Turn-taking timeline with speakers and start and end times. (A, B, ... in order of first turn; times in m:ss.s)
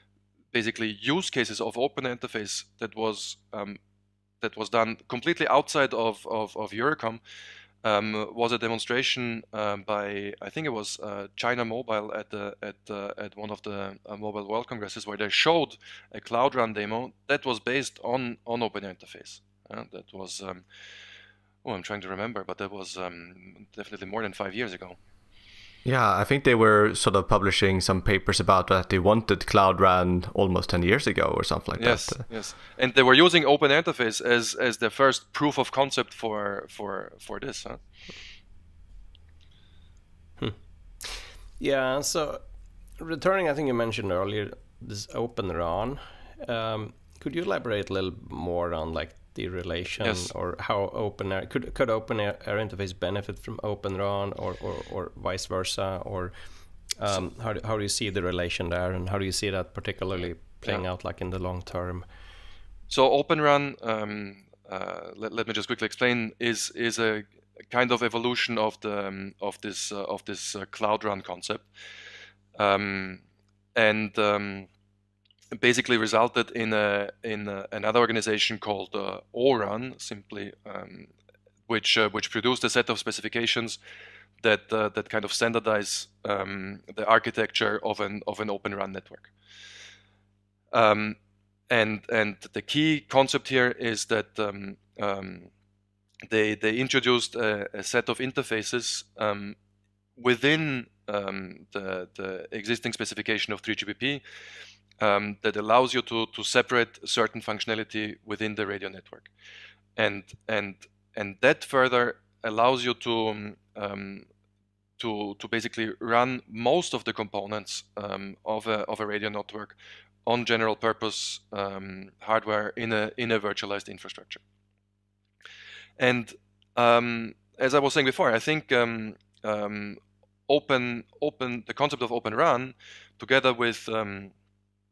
0:00.5-0:03.8 A
0:04.4-0:07.2 A
0:07.8-0:20.6 A
0:21.6-0:25.0 A
0:25.8-0:32.2 B
0:31.8-0:37.8 A
0:40.4-0:42.4 C
0:43.0-0:56.3 C
0:50.0-0:50.3 A
0:57.0-1:02.0 C
1:02.9-1:11.7 A
1:12.6-1:13.2 A
1:13.8-1:14.7 A
1:15.5-1:21.1 A
1:21.7-1:23.8 A
1:24.4-1:29.3 A
1:30.7-1:31.2 A
1:31.7-1:35.5 A
1:36.3-1:39.6 A
1:40.2-1:44.2 A
1:45.0-1:49.3 A
1:50.0-1:54.3 A
1:55.0-2:04.4 A
2:06.0-2:14.3 A